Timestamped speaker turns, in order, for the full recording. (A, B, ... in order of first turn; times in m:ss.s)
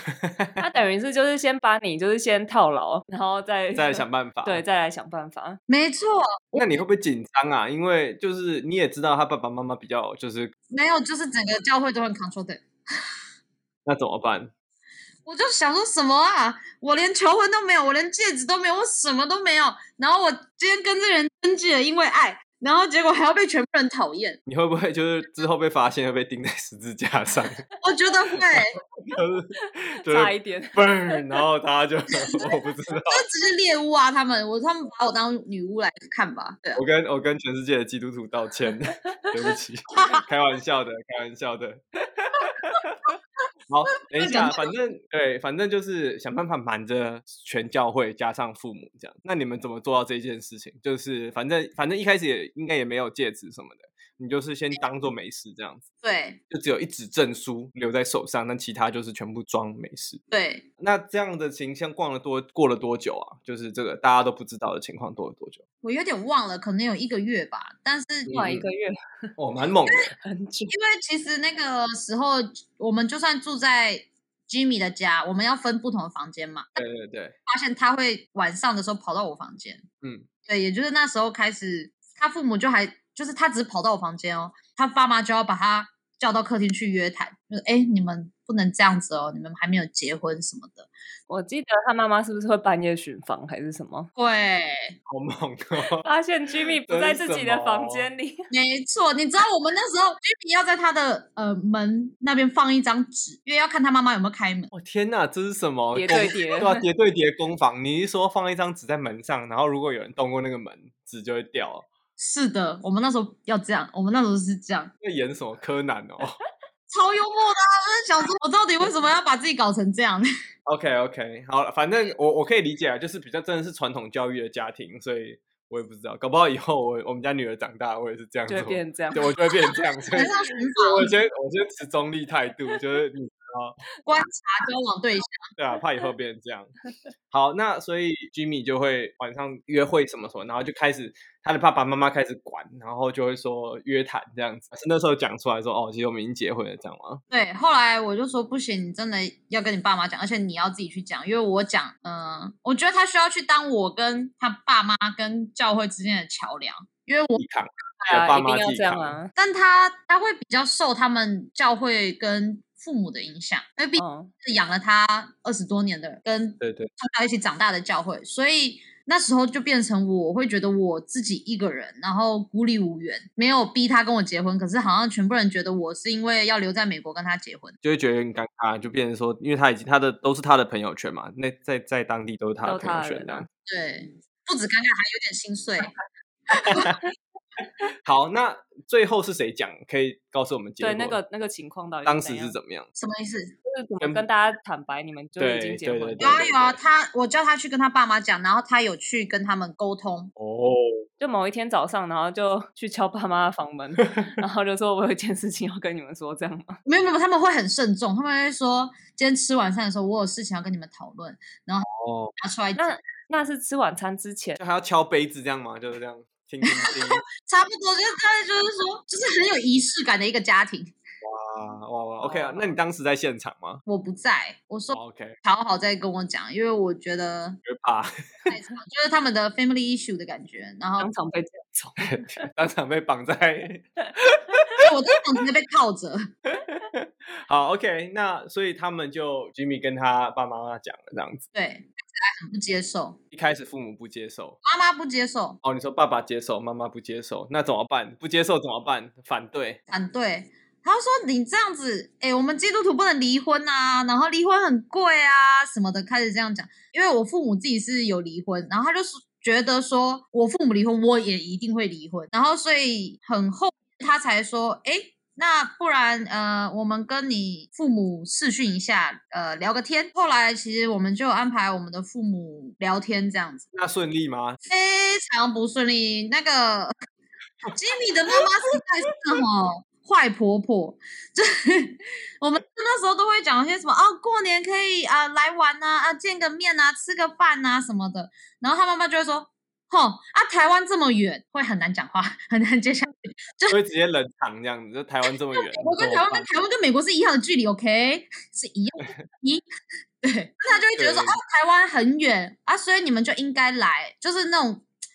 0:00.1-0:00.6 A
0:00.6-0:05.6 B
0:03.8-0:04.6 A
0:05.7-0:06.7 C
0:06.6-0:10.5 A
0:10.7-0:13.0 C
0:13.8-0:14.5 A
0:15.3-0:24.4 C
0:24.5-0:27.6 A
0:27.8-0:28.8 C
0:28.4-0:33.2 A
0:30.0-0:31.2 B
0:33.1-0:36.8 C
0:36.8-0:43.1 A
0:43.7-0:55.8 A
0:44.1-0:44.7 C
0:56.0-0:56.4 C
0:56.5-1:00.2 A
1:00.3-1:00.6 C
1:00.8-1:05.6 A
1:05.8-1:08.3 C
1:08.3-1:08.7 A
1:08.3-1:09.3 B
1:09.4-1:10.1 A
1:10.2-1:10.7 B
1:10.7-1:16.8 C
1:16.8-1:17.4 A
1:17.5-1:19.9 C
1:20.0-1:20.3 A
1:20.5-1:30.9 C
1:31.3-1:34.1 B
1:34.2-1:35.0 C
1:35.1-1:36.1 A
1:36.0-1:38.5 B
1:36.9-1:38.1 A
1:38.5-1:44.7 C
1:44.7-1:51.9 A
1:45.9-1:46.8 B
1:52.2-1:54.9 C
1:55.0-1:56.4 A
1:56.9-2:00.3 C
2:00.7-2:13.8 A
2:08.5-2:09.6 B
2:10.1-2:11.1 C
2:14.0-2:15.5 C
2:15.6-2:16.7 A
2:17.3-2:27.2 A
2:27.3-2:37.4 C
2:37.4-2:39.2 A
2:38.0-2:39.3 B
2:39.4-2:57.8 C
2:44.0-2:44.3 B
2:46.6-2:46.9 A
2:57.8-3:03.5 A
3:02.6-3:03.5 B
3:03.7-3:05.9 C
3:06.5-3:06.9 C
3:06.6-3:07.0 A
3:08.0-3:11.2 A
3:10.8-3:12.6 B
3:12.0-3:12.9 A
3:13.0-3:13.5 C
3:13.6-3:16.4 B
3:15.4-3:16.8 A
3:16.2-3:20.3 C
3:20.4-3:21.1 A
3:21.2-3:26.8 B
3:26.9-3:33.0 C
3:31.9-3:32.3 A
3:32.8-3:34.6 B
3:34.6-3:37.2 A
3:36.6-3:40.9 C
3:41.2-3:43.8 A
3:42.2-3:42.8 B
3:43.9-3:47.6 C
3:44.9-3:45.4 A
3:47.6-3:48.5 A
3:48.5-3:51.1 C
3:51.0-3:52.5 B
3:52.0-3:54.9 A
3:54.8-3:56.3 C
3:56.5-4:01.5 A
4:01.5-4:03.2 C
4:03.3-4:04.6 A
4:04.6-4:05.6 C
4:05.6-4:09.8 A
4:09.9-4:33.7 C
4:33.7-4:34.6 A
4:34.7-4:36.9 C
4:37.7-4:53.8 C
4:38.4-4:38.7 A
4:53.7-4:56.5 A
4:55.5-4:59.6 C
5:00.2-5:04.9 C
5:01.0-5:01.4 A